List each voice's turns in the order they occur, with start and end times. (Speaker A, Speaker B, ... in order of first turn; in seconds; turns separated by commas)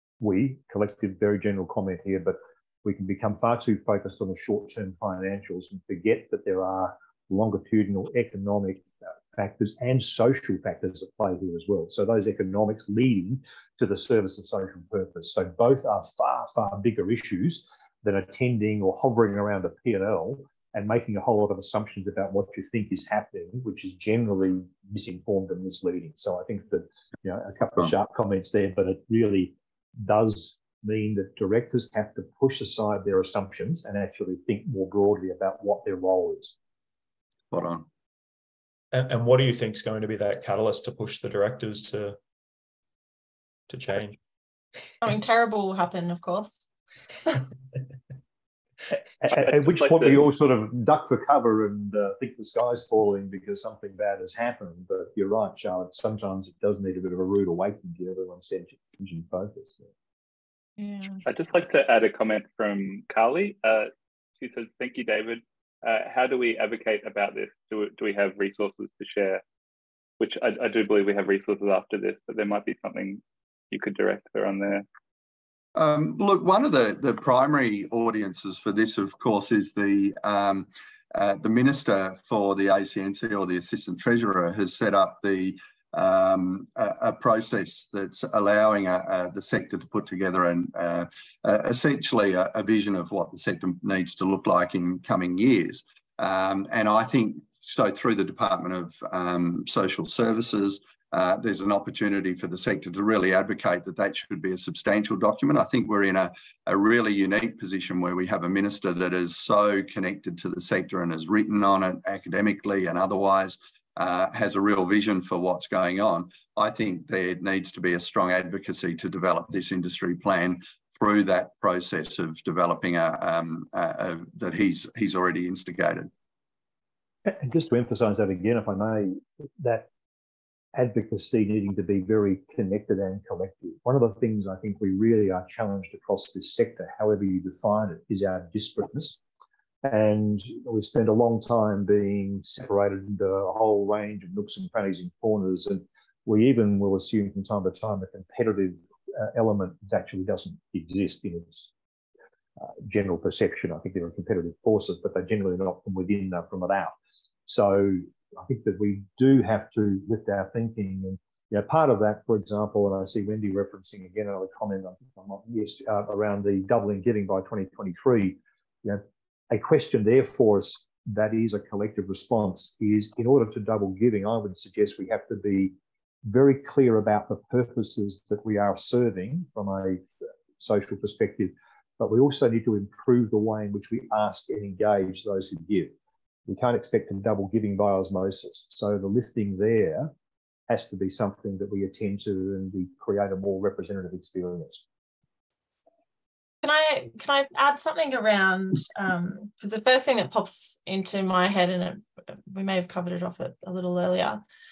Speaker A: 0.2-36.5, Speaker B: 37.5-37.9, Speaker C: 38.9-42.2, Speaker C: 43.7-44.2, Speaker D: 45.0-47.4, Speaker A: 49.2-59.9, Speaker E: 49.2-50.2, Speaker D: 60.8-61.2, Speaker E: 61.2-69.4, Speaker E: 70.2-74.8, Speaker B: 75.7-126.1, Speaker A: 127.2-129.9, Speaker A: 130.7-139.2, Speaker A: 139.8-151.7, Speaker A: 152.6-156.9, Speaker A: 157.5-175.7, Speaker A: 176.2-180.1, Speaker A: 180.6-185.9, Speaker A: 186.5-190.1, Speaker A: 190.7-194.8, Speaker D: 196.6-204.4